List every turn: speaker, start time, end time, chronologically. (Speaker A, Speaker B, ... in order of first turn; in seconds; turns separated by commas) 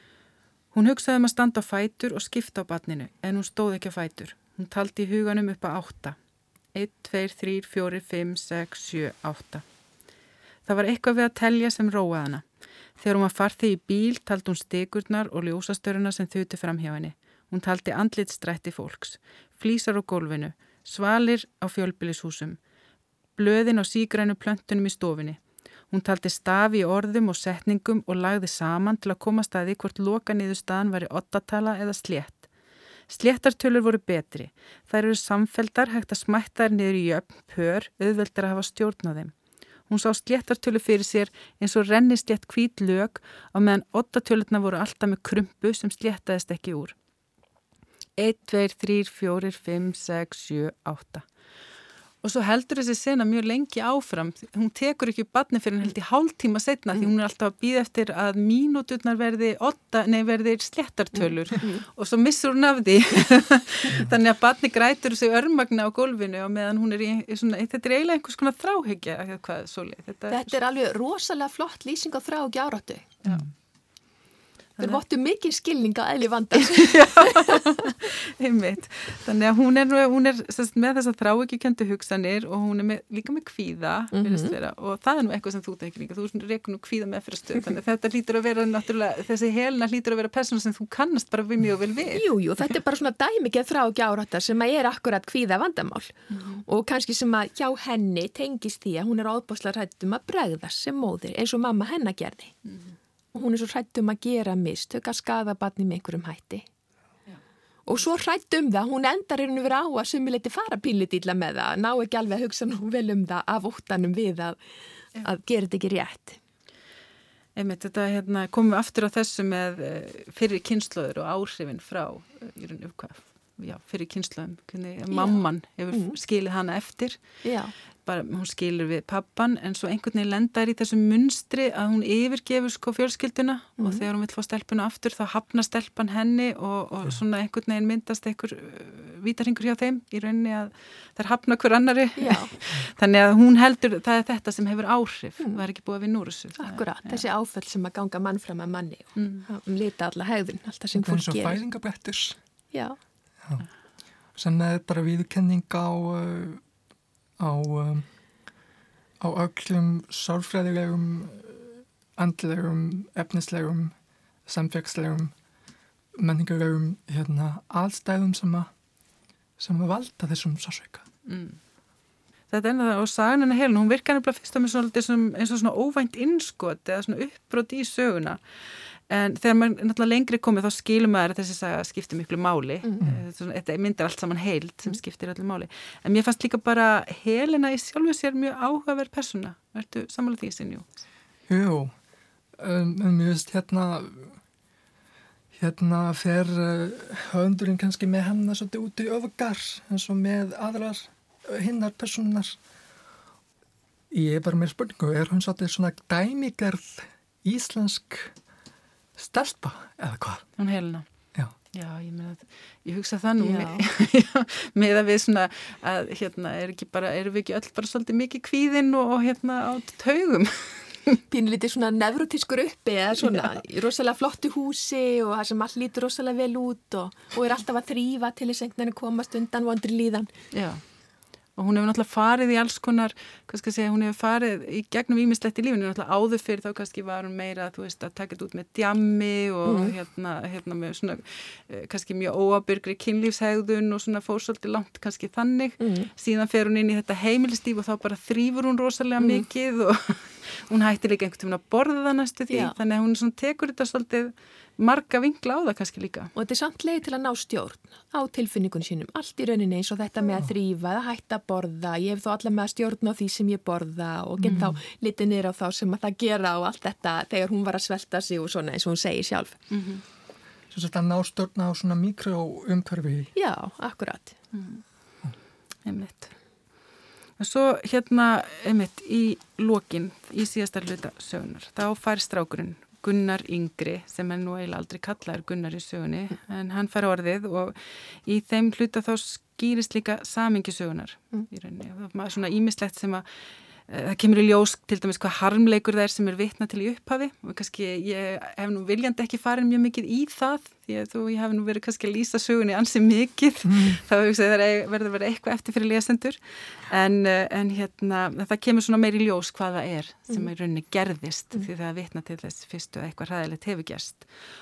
Speaker A: 0.7-6.2, Speaker A: 6.7-9.6, Speaker A: 10.7-12.4, Speaker A: 13.0-22.6, Speaker A: 23.4-32.5, Speaker A: 33.1-39.3, Speaker A: 39.9-47.0, Speaker A: 48.2-51.3, Speaker A: 52.2-70.5, Speaker B: 70.3-73.2, Speaker B: 74.8-77.6, Speaker A: 76.5-92.2, Speaker B: 84.1-84.5, Speaker B: 92.1-96.1, Speaker A: 96.3-96.6, Speaker B: 96.7-102.5, Speaker B: 103.3-106.7, Speaker B: 107.9-114.6, Speaker B: 115.2-116.4, Speaker A: 117.6-127.2, Speaker B: 125.1-125.4, Speaker B: 127.4-127.7, Speaker A: 128.1-147.2, Speaker B: 142.2-142.5, Speaker B: 146.6-151.6, Speaker A: 149.2-149.5, Speaker C: 150.9-152.4, Speaker B: 152.7-153.0, Speaker C: 154.3-156.6, Speaker C: 157.4-158.1, Speaker C: 159.2-163.9, Speaker C: 164.5-165.3, Speaker C: 166.2-168.7, Speaker C: 169.6-171.1, Speaker A: 171.3-171.6, Speaker A: 172.5-178.4, Speaker A: 179.1-190.9, Speaker C: 191.5-191.9, Speaker C: 192.6-194.4, Speaker C: 195.6-202.6, Speaker C: 204.1-208.3, Speaker C: 209.2-210.5, Speaker A: 210.6-211.1, Speaker A: 211.7-221.2, Speaker B: 213.4-213.8, Speaker B: 221.3-230.3, Speaker A: 230.5-230.8, Speaker A: 231.6-256.3, Speaker B: 239.7-239.9, Speaker B: 245.8-246.1, Speaker B: 256.4-269.6, Speaker A: 264.5-264.8, Speaker A: 269.7-270.0, Speaker C: 270.7-273.3, Speaker B: 273.4-274.4, Speaker A: 274.5-274.8, Speaker A: 275.9-276.3, Speaker A: 277.4-293.3, Speaker A: 293.9-314.3, Speaker C: 303.6-304.0